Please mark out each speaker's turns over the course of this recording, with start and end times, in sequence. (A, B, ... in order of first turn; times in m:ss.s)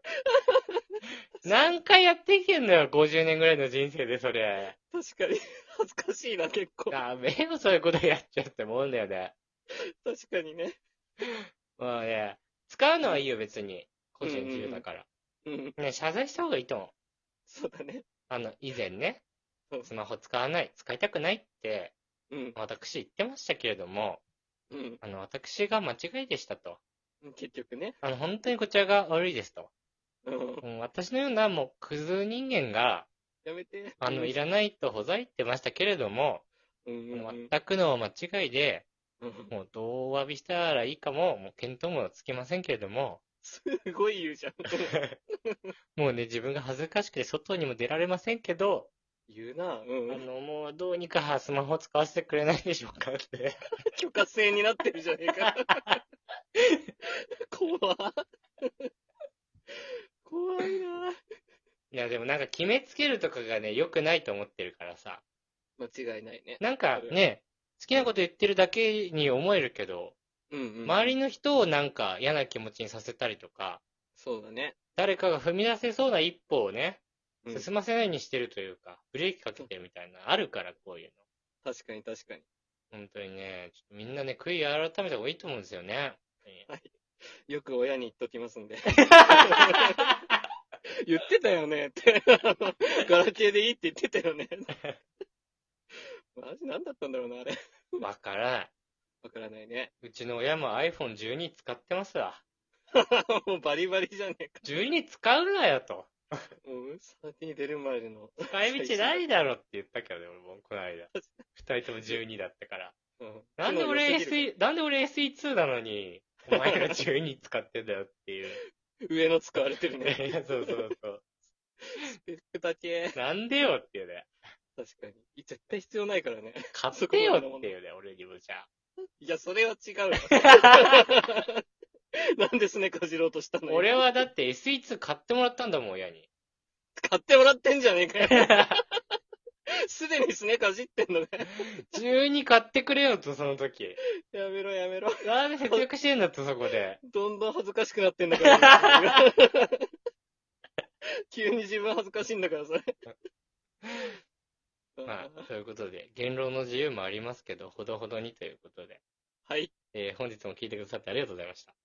0:00.2-0:01.7 A
0:01.4-0:04.8 B
0:04.9-0:07.0 A
0:06.9-0:09.3 B
0:10.0-0:10.8 A
0:11.8-0:15.1 B
0:14.2-0:14.8 A
0:15.4-0:15.8 A
0:15.8-0:16.9 B
0:17.5-0:18.0 A
0:18.3-0:19.2 B
0:19.8-0:21.9 B
0:22.3-0:22.6 A
0:22.6-0:24.2 B
0:24.7-0:25.0 A
0:25.0-0:26.8 B
0:27.2-0:28.0 A
0:28.0-0:29.7 B
0:30.2-0:30.6 A
0:30.6-0:33.1 B
0:33.4-0:34.4 A
0:34.0-0:36.4 B
0:36.8-0:37.5 A
0:37.1-0:38.9 B
0:39.2-0:39.5 A
0:39.5-0:43.2 B
0:43.4-0:45.7 A
0:46.0-0:48.9 B
0:49.3-0:50.2 A
0:50.1-0:53.6 B
0:53.9-0:56.0 A
0:55.4-0:56.0 B
0:57.5-0:58.9 A
1:00.2-1:01.1 A
1:01.9-1:05.2 B
1:05.8-1:07.2 A
1:06.6-1:10.2 B
1:10.5-1:11.2 A
1:10.8-1:13.8 B
1:14.1-1:14.8 A
1:15.0-1:21.2 B
1:21.6-1:22.4 A
1:22.9-1:26.7 B
1:26.7-1:26.9 A
1:27.5-1:30.1 A
1:29.1-1:30.1 B
1:31.0-1:34.8 A
1:36.3-1:38.0 A
1:38.0-1:38.7 B
1:39.2-1:39.9 A
1:40.0-1:42.4 B
1:42.9-1:44.7 A
1:44.6-1:46.4 B
1:46.6-1:49.2 A
1:48.4-1:52.9 B
1:51.1-1:51.4 A
1:53.2-1:54.5 A
1:53.6-1:58.6 B
1:56.5-1:57.0 A
1:59.1-2:00.9 A
2:00.0-2:01.2 B
2:01.8-2:03.2 A
2:03.1-2:04.3 B
2:04.8-2:07.7 A
2:06.7-2:08.7 B
2:09.2-2:11.6 A
2:10.3-2:11.1 B
2:12.4-2:14.0 A
2:13.7-2:16.3 B
2:17.0-2:18.8 A
2:18.3-2:18.8 B
2:19.9-2:21.7 A
2:21.6-2:24.0 B
2:24.3-2:25.8 A
2:25.2-2:27.0 B
2:27.0-2:29.9 A
2:28.4-2:29.2 B
2:31.3-2:32.9 A
2:35.0-2:35.5 A
2:35.0-2:39.0 B
2:39.4-2:39.7 A
2:39.9-2:41.7 B